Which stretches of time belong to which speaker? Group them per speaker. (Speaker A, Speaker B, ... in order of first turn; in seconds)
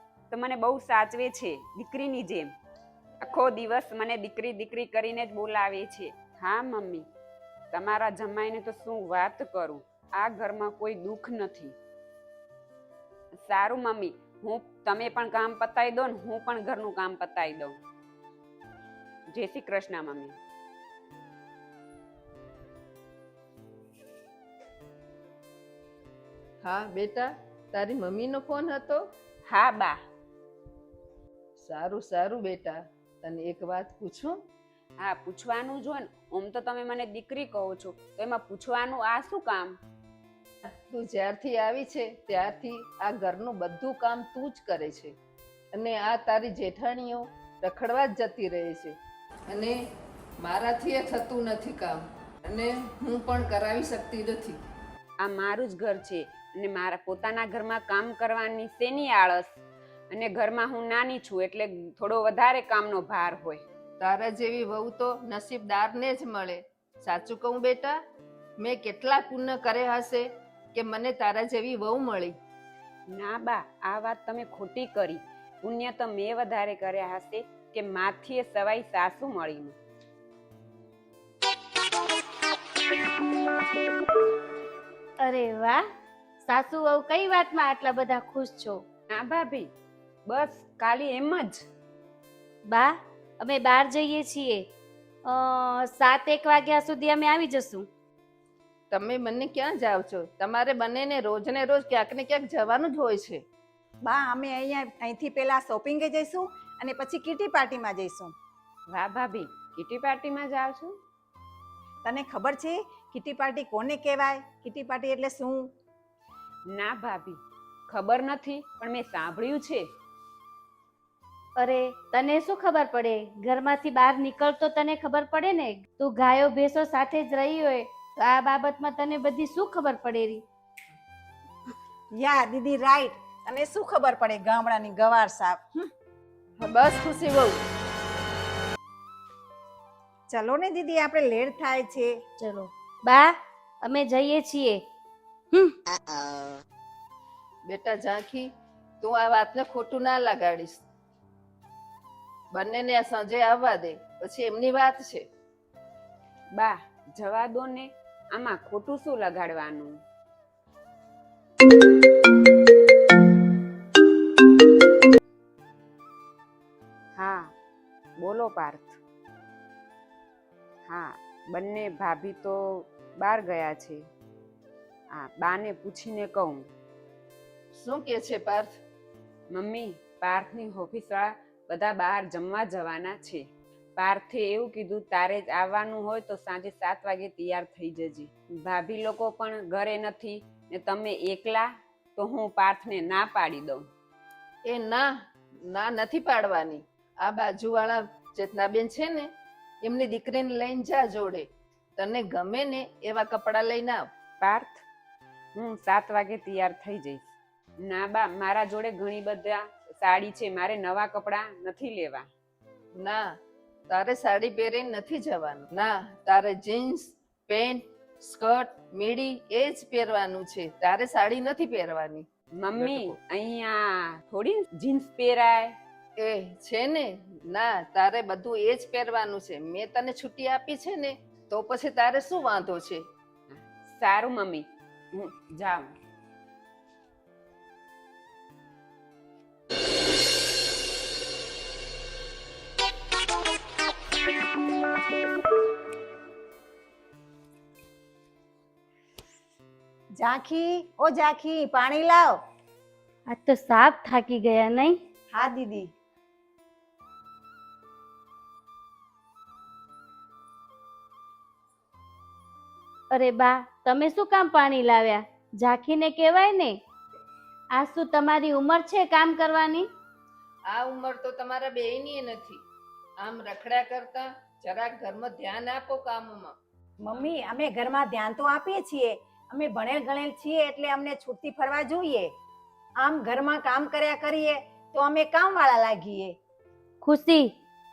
Speaker A: 0.3-2.5, 3.2-7.1, 7.7-11.8, 13.4-17.8, 19.3-20.4, 29.5-30.0, 35.0-39.8, 55.2-63.6, 73.1-79.8, 89.1-89.7, 90.2-91.6, 108.9-110.9, 116.7-119.8, 156.5-160.0, 167.2-167.5, 168.2-169.0, 170.8-172.6, 173.2-174.0, 175.1-176.6, 179.5-183.4, 184.0-193.8, 204.4-204.8, 205.6-207.3, 207.8-212.3, 222.6-225.8, 233.5-235.9
Speaker B: 26.6-29.0, 31.6-34.4, 40.6-45.1, 45.7-48.9, 49.5-49.8, 50.4-54.6, 64.0-68.0, 68.6-72.3, 98.9-103.4, 136.6-137.6, 147.7-148.5, 149.0-150.8, 152.5-155.2, 177.7-178.8, 194.6-195.1, 195.6-199.3, 199.8-204.1, 212.9-213.3, 213.9-222.2, 222.8-223.2, 226.2-233.0, 270.7-272.6, 273.2-276.5
Speaker C: 85.2-85.8, 86.4-88.8, 92.7-94.6, 95.2-97.8, 121.6-130.4, 142.4-144.8, 253.3-255.0, 263.1-266.8, 267.7-269.9, 287.0-287.5
Speaker D: 104.0-108.3, 112.0-115.7, 132.1-135.9, 140.3-142.1, 250.2-252.4, 255.3-255.9, 277.0-282.3, 283.0-286.4